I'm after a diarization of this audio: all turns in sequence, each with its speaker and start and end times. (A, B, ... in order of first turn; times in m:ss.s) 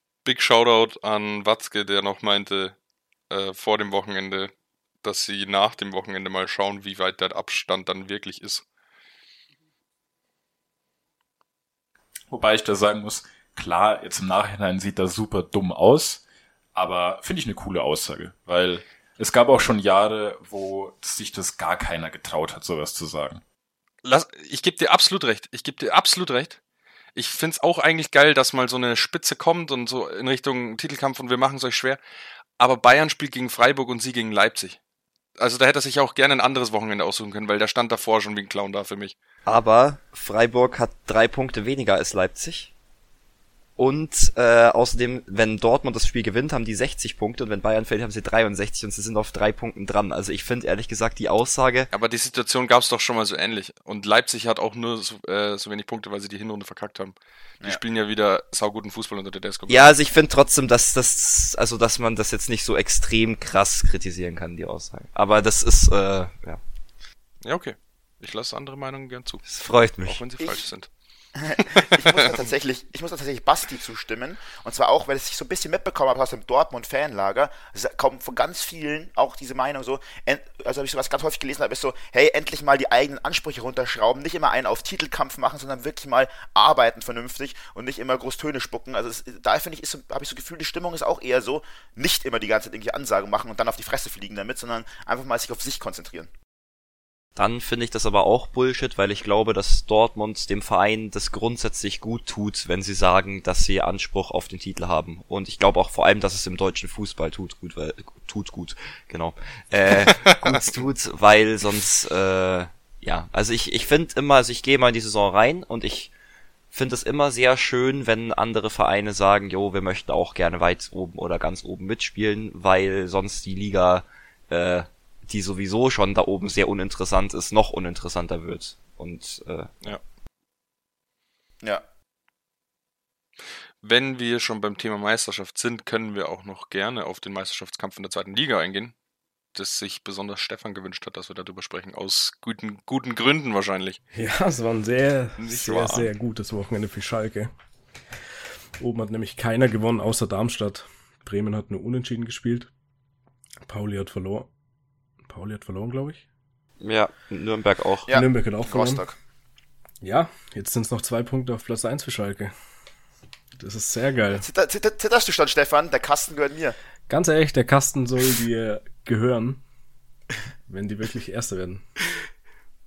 0:00.2-0:02.7 A
0:03.3-0:04.5 A
0:05.0-0:08.6 A
0:12.3-0:16.2 B
0:16.7-0:23.4 B
0:24.0-0:26.6 A
0:27.1-0:32.0 A
0:32.6-0:34.8 A
0:35.4-0:39.2 A
0:39.4-0:42.7 C
0:43.8-0:51.9 C
0:51.9-0:59.9 A
0:59.7-1:06.6 C
1:07.4-1:09.4 A
1:09.4-1:10.2 C
1:10.0-1:10.9 A
1:11.4-1:36.3 D
1:11.6-1:12.3 A
1:37.4-1:56.1 C
1:50.0-1:50.4 A
1:56.7-2:09.8 C
2:13.8-2:18.9 A
2:19.5-2:24.0 A
2:24.1-2:27.5 E
2:25.4-2:26.1 A
2:28.8-2:32.7 E
2:33.6-2:34.5 E
2:35.2-2:36.2 E
2:36.8-2:38.1 C
2:38.1-2:39.2 D
2:38.1-2:39.1 E
2:40.0-2:42.5 E
2:43.6-2:44.4 E
2:44.3-2:46.8 D
2:47.1-2:49.6 E
2:50.7-2:51.8 E